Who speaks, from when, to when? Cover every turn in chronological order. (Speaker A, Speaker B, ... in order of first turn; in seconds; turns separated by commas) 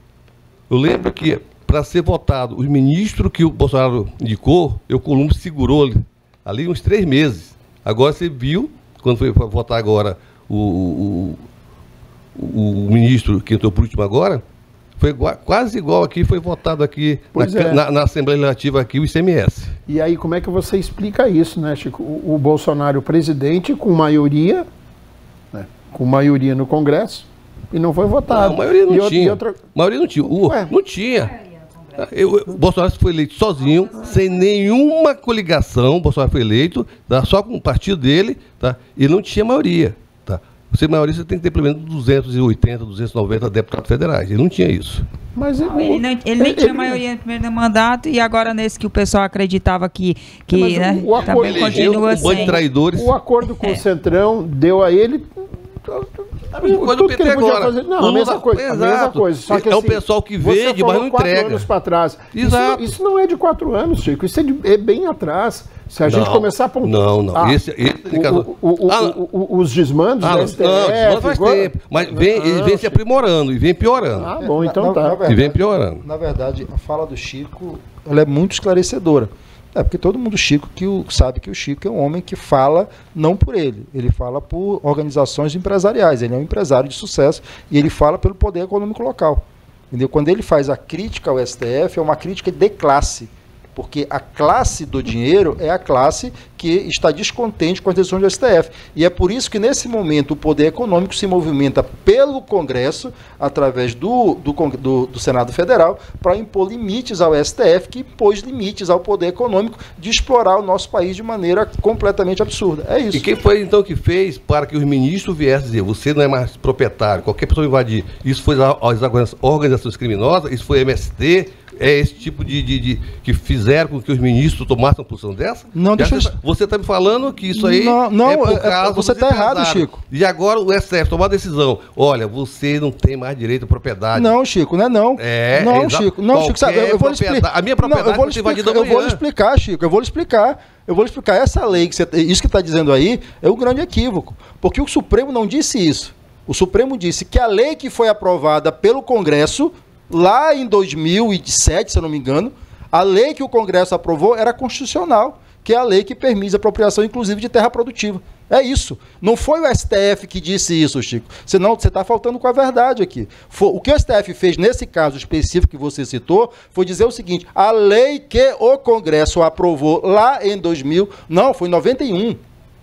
Speaker A: 0.7-11.4, Speaker A: 12.4-14.4, Speaker A: 15.0-19.8, Speaker B: 17.3-17.8, Speaker B: 19.9-24.7, Speaker B: 25.5-29.6, Speaker A: 28.3-31.3, Speaker B: 30.2-30.7, Speaker A: 32.0-45.1, Speaker B: 45.4-47.0, Speaker C: 45.6-52.6, Speaker B: 50.5-67.6, Speaker A: 51.2-53.1, Speaker A: 56.5-61.7, Speaker A: 62.3-63.0, Speaker A: 66.0-69.2, Speaker B: 68.1-73.0, Speaker A: 70.2-74.3, Speaker B: 74.2-75.2, Speaker D: 74.4-113.3, Speaker A: 75.3-76.0, Speaker A: 113.1-134.3, Speaker D: 125.7-126.3, Speaker D: 127.5-130.0, Speaker D: 134.1-172.4, Speaker A: 135.2-139.2